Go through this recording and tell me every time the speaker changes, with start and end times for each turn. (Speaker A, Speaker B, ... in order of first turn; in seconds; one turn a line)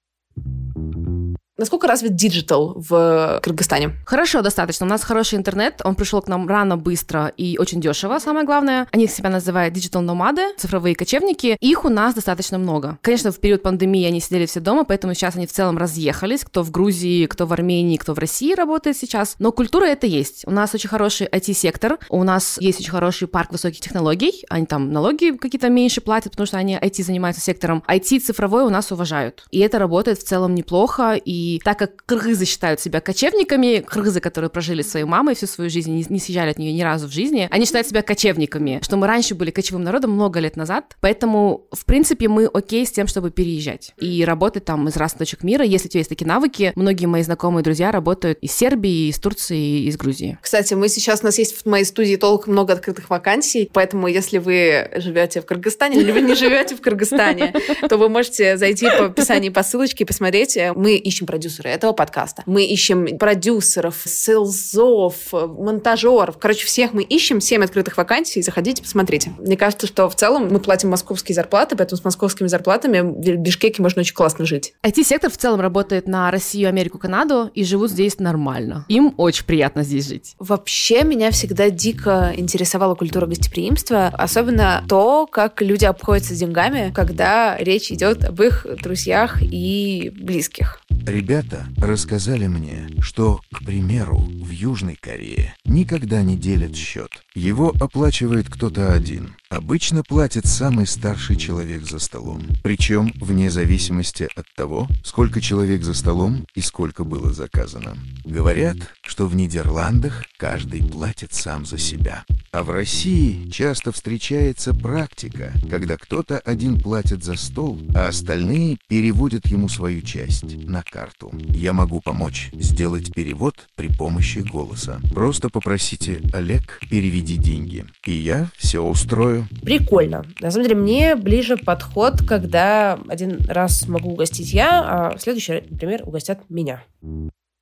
Speaker A: 1.6-4.0
Speaker B: 4.0-50.4
Speaker A: 50.4-74.7
Speaker B: 74.8-80.3
Speaker A: 80.4-90.8
Speaker C: 91.0-129.5
Speaker A: 129.7-136.7